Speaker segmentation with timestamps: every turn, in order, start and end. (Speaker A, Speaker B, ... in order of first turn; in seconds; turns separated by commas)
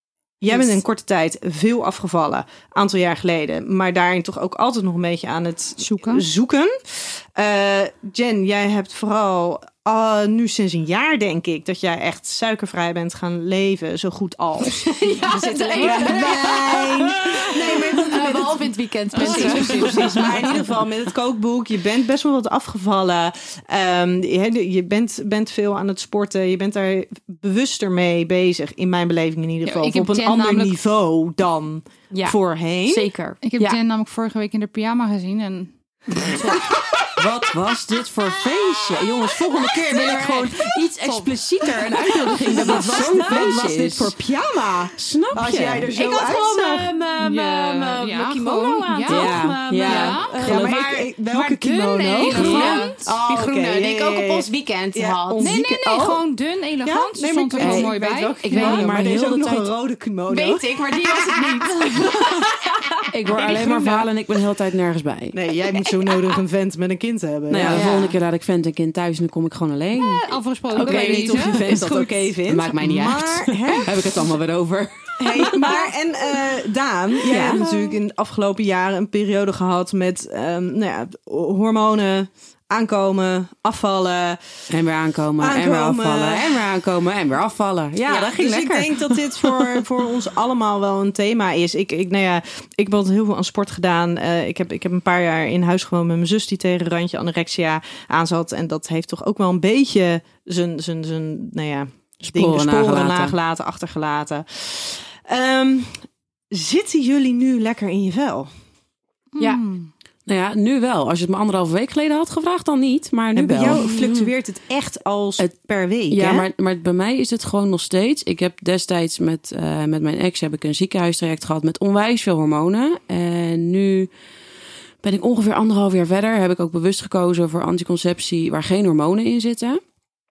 Speaker A: 0.4-33.1, Speaker B: 5.8-6.2, Speaker C: 14.7-20.6, Speaker B: 15.7-16.2, Speaker B: 19.1-20.5, Speaker B: 29.6-30.7, Speaker C: 32.1-33.8, Speaker B: 33.4-36.7, Speaker A: 36.6-37.2, Speaker D: 37.2-44.1, Speaker A: 39.0-40.1, Speaker C: 39.9-43.5, Speaker A: 42.3-46.9, Speaker D: 45.0-45.9, Speaker C: 45.9-51.1, Speaker B: 47.2-50.4, Speaker D: 49.1-50.9, Speaker A: 49.1-49.7, Speaker A: 50.2-56.2, Speaker B: 51.3-53.1, Speaker C: 52.2-55.5, Speaker D: 52.2-52.7, Speaker B: 55.4-59.2, Speaker A: 56.8-62.0, Speaker D: 57.6-57.9, Speaker D: 58.5-59.7, Speaker C: 60.3-64.0, Speaker D: 63.1-65.4, Speaker A: 65.3-67.9, Speaker D: 67.5-70.3, Speaker C: 67.7-68.2, Speaker B: 70.0-71.6, Speaker C: 70.7-72.0, Speaker A: 70.8-74.1, Speaker D: 72.4-75.7, Speaker A: 75.2-84.5, Speaker D: 77.3-77.6, Speaker C: 77.3-77.9, Speaker D: 84.7-89.8, Speaker A: 85.4-86.6, Speaker A: 88.0-108.5, Speaker D: 102.2-103.3, Speaker B: 109.4-109.9, Speaker D: 110.3-113.8, Speaker A: 113.3-116.5, Speaker C: 113.7-114.3, Speaker D: 116.1-124.1, Speaker D: 125.0-129.8